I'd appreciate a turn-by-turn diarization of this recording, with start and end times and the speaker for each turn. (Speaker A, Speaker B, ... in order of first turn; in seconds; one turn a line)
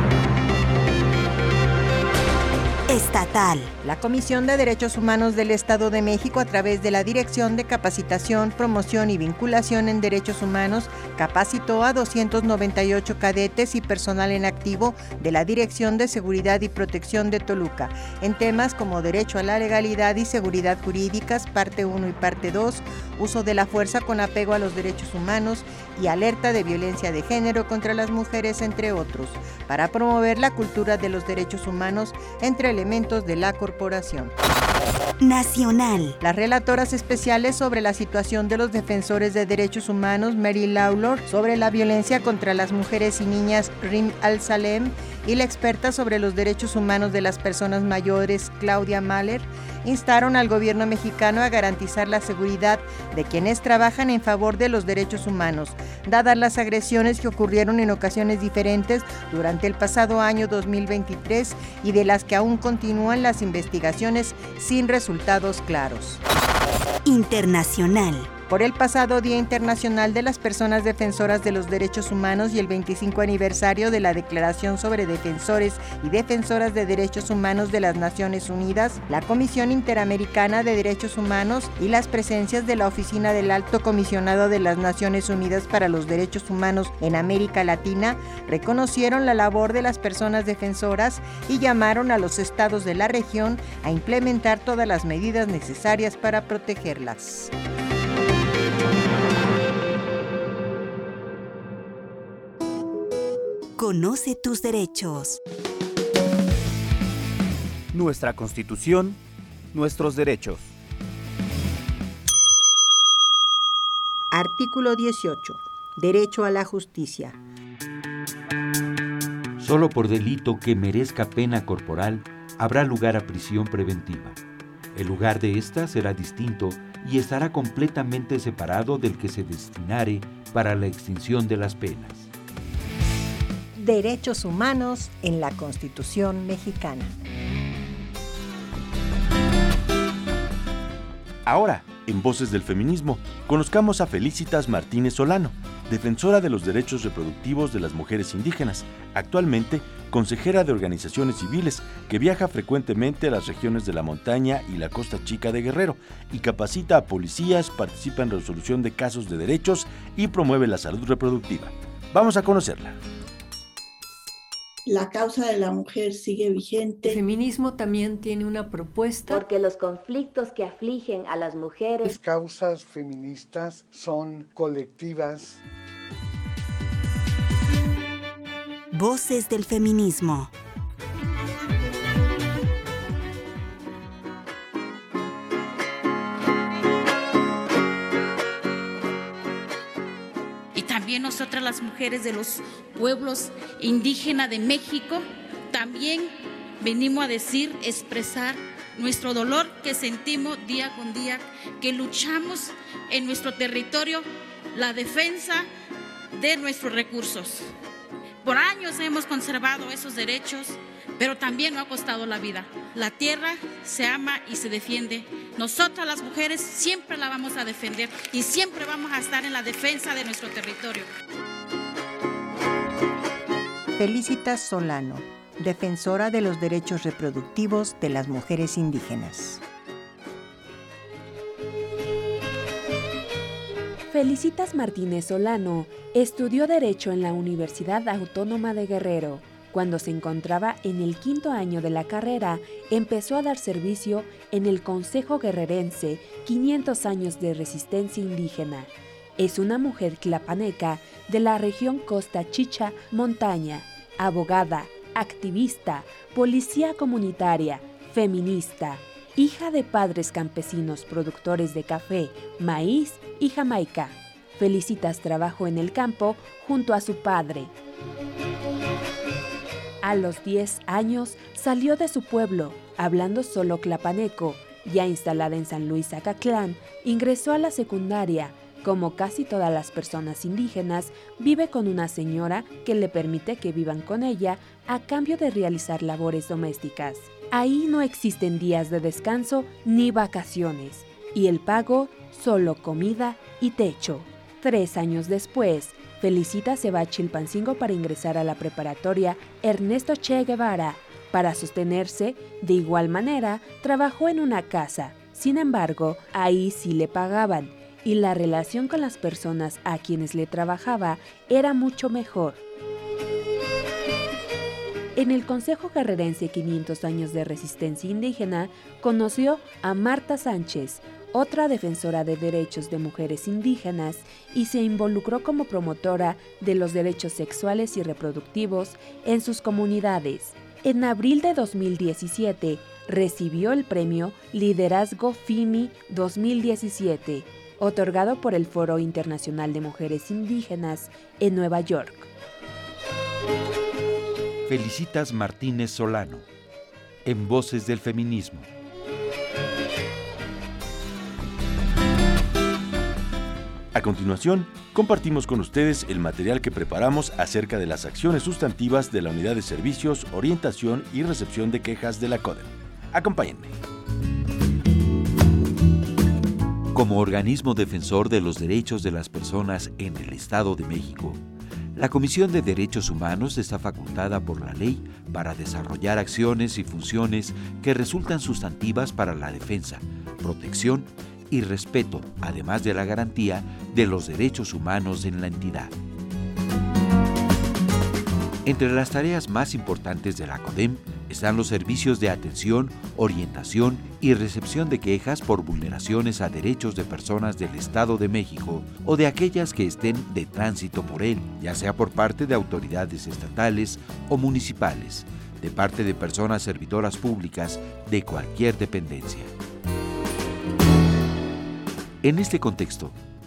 Speaker A: 2.9-3.7
Speaker B: 3.8-34.3
Speaker A: 35.2-36.2
Speaker B: 36.2-66.2
Speaker A: 67.0-68.3
Speaker B: 68.5-97.5
Speaker A: 103.8-105.4
Speaker C: 107.9-109.2
Speaker C: 109.7-110.7
Speaker B: 114.3-117.4
Speaker D: 119.6-124.4
Speaker D: 124.9-132.3
Speaker B: 133.8-137.1
Speaker E: 141.5-163.0
Speaker F: 164.9-167.2
Speaker G: 167.1-169.4
Speaker H: 169.3-172.1
Speaker I: 172.0-175.6
Speaker A: 178.9-180.5
Speaker J: 190.8-205.7
Speaker J: 206.3-207.7
Speaker J: 208.4-221.1
Speaker B: 224.0-229.6
Speaker K: 234.1-267.7
Speaker K: 270.0-312.6
Speaker K: 315.2-342.3
Speaker D: 344.7-346.5
Speaker D: 347.2-348.7
Speaker E: 353.9-363.7
Speaker D: 366.9-371.4
Speaker D: 371.9-385.9
Speaker D: 388.6-409.5
Speaker D: 412.2-413.2